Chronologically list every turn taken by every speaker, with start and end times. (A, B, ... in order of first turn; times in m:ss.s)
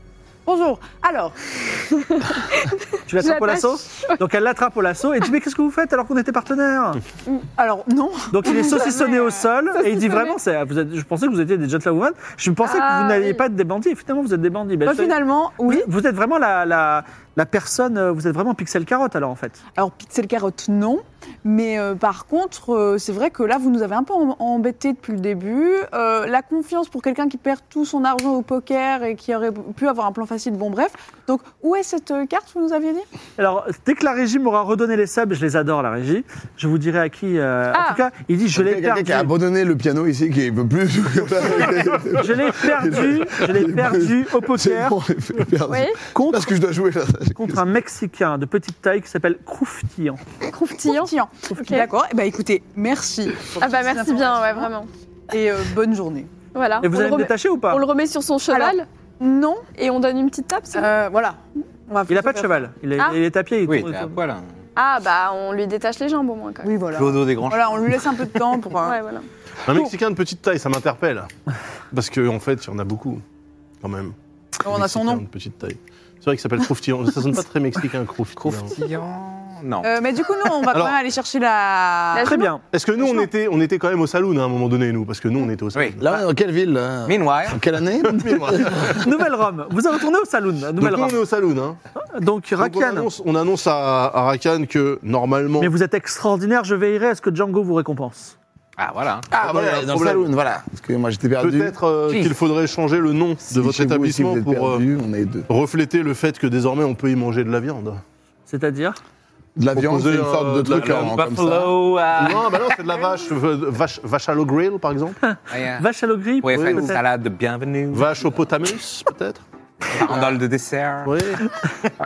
0:00.4-0:01.7 A
0:02.0-0:04.2 B
0:03.1-0:07.0 C
0:07.6-0:09.5 A
0:08.3-0:19.6 C
0:09.9-0:10.2 B
0:12.6-0:13.4 B
0:14.8-0:15.9 A
0:19.7-0:33.1 A
0:33.4-0:39.3 C
0:37.7-0:38.0 B
0:38.5-0:47.6 D
0:42.1-0:45.0 C
0:45.7-0:46.0 B
0:46.1-0:46.5 C
0:47.3-0:50.2 C
0:50.5-0:51.9 B
0:50.8-0:54.7 A
0:53.6-0:54.9 B
0:55.3-0:56.3 A
0:56.5-0:58.9 B
0:56.8-0:57.8 C
0:58.5-0:59.7 A
0:59.8-1:00.9 B
1:00.7-1:02.7 A
1:02.1-1:04.2 C
1:03.6-1:04.5 E
1:04.8-1:06.8 B
1:06.6-1:09.0 A
1:06.9-1:08.2 E
1:08.8-1:09.3 B
1:09.6-1:11.3 F
1:11.9-1:13.2 F
1:13.8-1:14.1 F
1:14.6-1:15.2 A
1:14.6-1:18.8 F
1:18.4-1:20.0 E
1:19.8-1:22.4 A
1:20.7-1:21.0 F
1:22.1-1:22.5 B
1:22.2-1:22.6 C
1:22.7-1:26.1 F
1:23.0-1:23.3 A
1:25.7-1:26.0 E
1:26.0-1:29.0 D
1:27.0-1:27.6 E
1:28.0-1:29.0 F
1:28.7-1:31.2 C
1:30.7-1:31.8 F
1:32.0-1:33.1 C
1:32.6-1:35.7 F
1:35.6-1:38.3 C
1:38.8-1:39.3 E
1:39.3-1:41.8 D
1:39.4-1:40.3 F
1:41.4-1:44.8 F
1:42.1-1:42.3 E
1:43.5-1:45.5 D
1:45.5-1:48.0 F
1:48.5-1:49.0 C
1:49.6-1:51.7 D
1:49.7-1:51.2 F
1:50.7-1:52.8 E
1:52.1-1:55.2 F
1:55.2-1:57.0 C
1:55.5-1:55.9 E
1:56.4-1:58.3 E
1:56.5-1:57.0 F
1:57.9-1:59.4 F
1:59.9-2:01.3 E
2:01.0-2:01.4 F